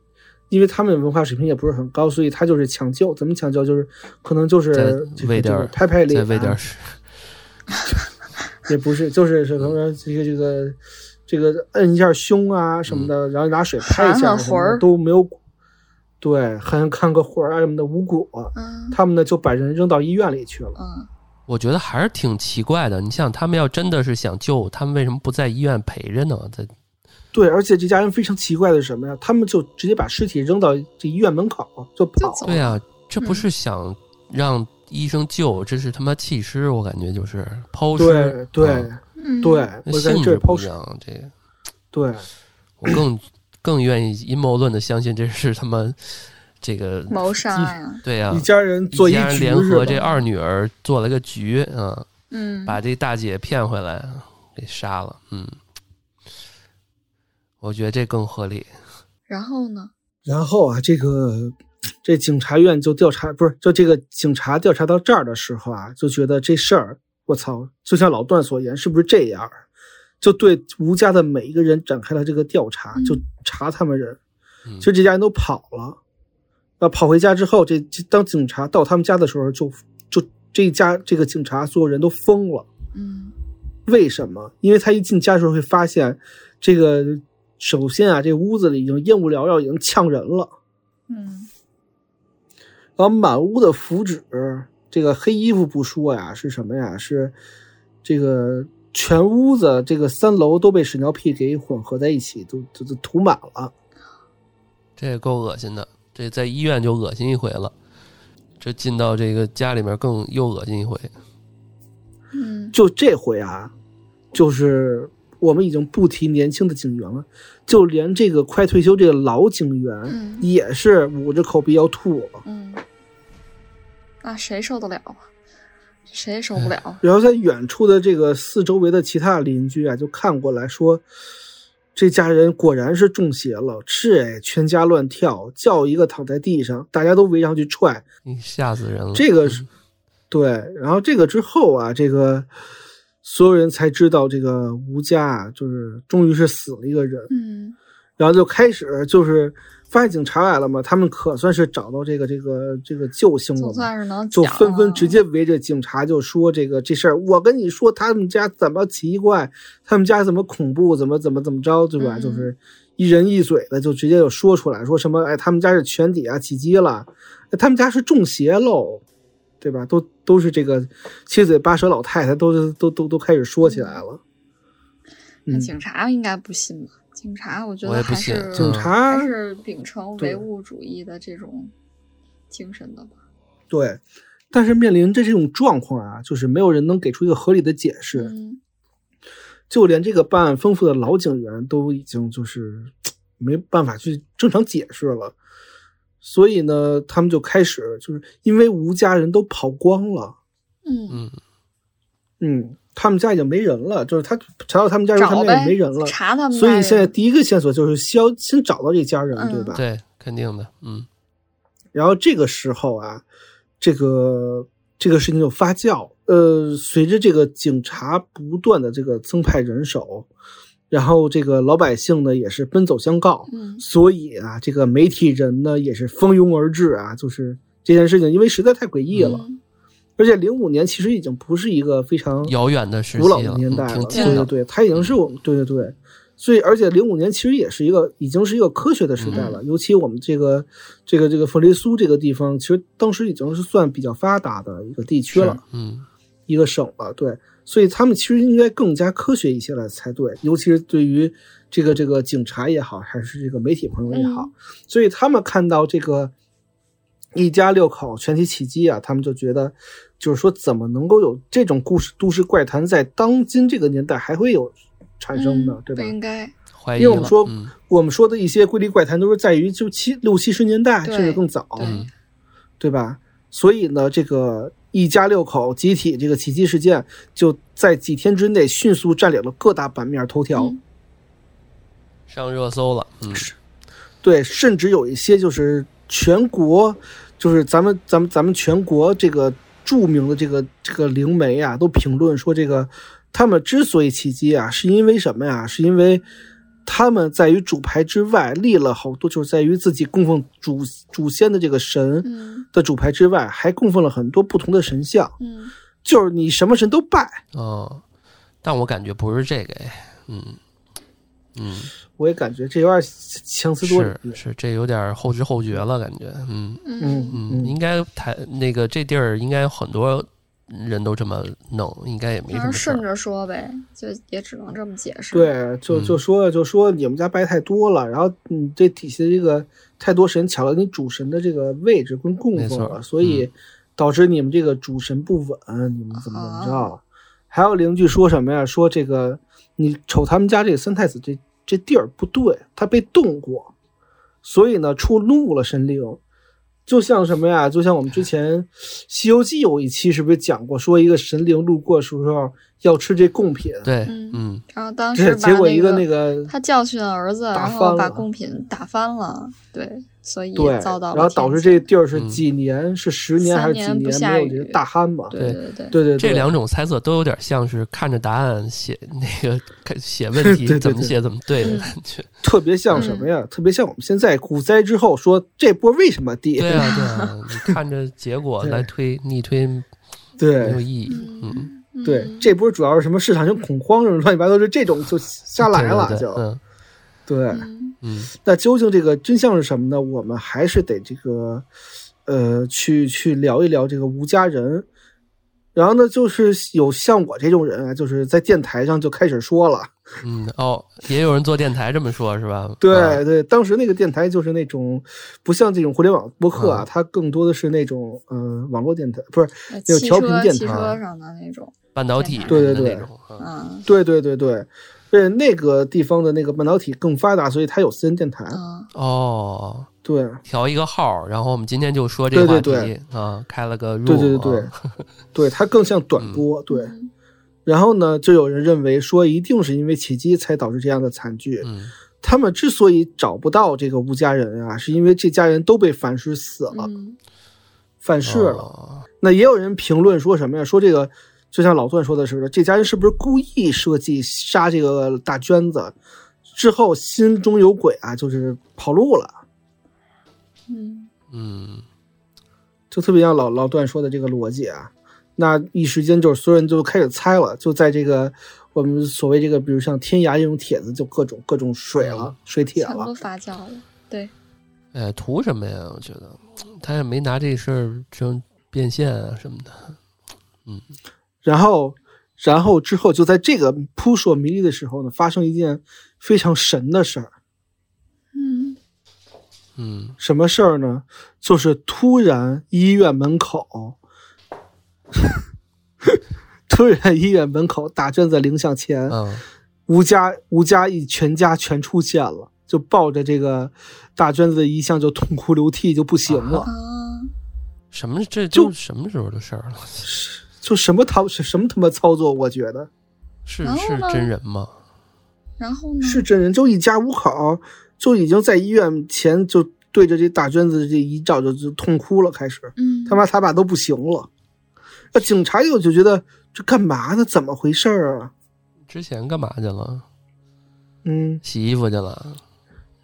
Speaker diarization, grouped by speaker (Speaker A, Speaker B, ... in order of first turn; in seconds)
Speaker A: 0.5-6.6, 8.7-10.8, 11.3-15.3, 16.2-20.8, 27.3-32.5, 37.9-40.7, 41.9-42.3, 48.3-50.0, 60.2-69.6, 70.2-74.2, 74.8-76.0, 76.8-82.7, 83.9-90.5, 93.0-97.3, 98.0-103.7, 112.7-113.7, 114.3-122.4, 127.0-131.0, 131.9-138.0, 139.1-139.6, 140.3-142.5, 143.2-147.3, 148.2-169.0, 169.6-174.2, 178.6-179.3, 180.2-180.4, 183.7-184.0, 184.5-188.3, 189.7-195.3, 196.2-200.4, 202.4-209.8, 211.9-213.2, 213.8-220.3, 220.9-229.4, 230.2-232.5, 233.1-245.6, 246.5-256.3, 257.3-266.1, 267.0-272.0, 272.8-280.7, 284.2-296.2, 296.9-305.3, 306.0-307.4, 312.2-314.4, 317.0-317.8, 325.3-343.7, 344.4-346.2, 346.9-353.9, 355.1-356.5, 357.5-358.3, 360.5-365.3, 365.9-366.5, 370.4-371.1, 372.4-376.9, 378.6-378.9, 380.4-380.8, 382.0-386.4, 387.3-387.7, 388.4-391.6, 392.2-394.9, 395.7-399.9, 402.8-410.9, 412.5-413.1, 413.9-418.6, 420.0-420.4, 422.3-422.9, 424.1-424.7, 425.3-426.9, 427.6-431.7, 432.2-436.9, 438.0-438.7, 439.2-445.9, 446.5-449.4, 452.9-463.1, 471.4-477.3, 480.2-484.0, 486.1-489.2, 489.9-496.7, 500.0-502.9, 506.0-514.3, 515.1-518.3, 521.0-521.4
Speaker B: 4.7-7.0, 12.9-13.1, 21.5-26.7, 32.4-38.9, 39.9-41.3, 42.8-47.4, 48.0-52.1, 52.6-55.6, 57.6-58.7, 105.0-107.7, 108.6-111.1, 138.2-139.7, 177.8-178.9, 201.1-201.4, 209.7-211.1, 229.1-229.4, 232.4-235.1, 239.2-239.5, 245.3-246.1, 266.7-267.7, 271.8-272.1, 282.3-283.5, 307.5-308.0, 308.6-310.6, 311.5-311.9, 313.8-323.0, 325.9-326.2, 332.6-333.5, 353.8-354.6, 362.1-362.4, 366.1-372.3, 376.6-379.9, 380.6-381.7, 385.6-386.6, 388.0-388.3, 400.2-403.2, 406.5-406.9, 410.7-411.0, 411.9-413.5, 418.9-419.9, 420.4-425.0, 426.2-426.4, 431.6-431.9, 438.2-439.1, 451.3-451.8, 462.0-462.3, 464.9-470.0, 479.8-480.2, 489.1-489.4, 496.2-496.6, 497.9-500.1, 503.4-504.8, 518.9-520.0, 521.4-522.4
Speaker C: 13.8-14.8, 18.5-19.0, 20.8-21.1, 32.2-33.4, 39.2-39.7, 47.1-48.0, 49.8-50.2, 52.3-52.8, 59.3-59.9, 72.9-73.2, 82.9-83.3, 91.1-91.5, 112.3-112.7, 120.1-120.5, 122.4-122.8, 124.2-125.3, 126.1-127.0, 147.3-147.8, 153.6-155.2, 162.0-162.5, 173.6-174.0, 175.5-181.7, 182.5-183.1, 188.1-188.6, 200.8-201.2, 205.2-207.1, 209.3-209.8, 223.5-223.8, 229.2-229.6, 234.1-234.4, 239.3-239.6, 254.1-254.5, 265.3-266.5, 271.0-272.1, 280.5-280.8, 302.2-302.7, 305.4-305.7, 316.8-317.4, 322.5-325.5, 336.1-336.9, 354.1-361.9, 363.4-366.0, 371.6-371.9, 372.9-373.3, 376.8-377.3, 381.1-382.5, 387.5-388.0, 409.7-412.7, 413.4-413.9, 418.5-418.9, 426.7-427.1, 436.7-437.2, 450.7-451.1, 462.8-464.3, 478.3-478.8, 496.6-497.3, 503.6-504.3, 505.6-506.2, 512.8-513.2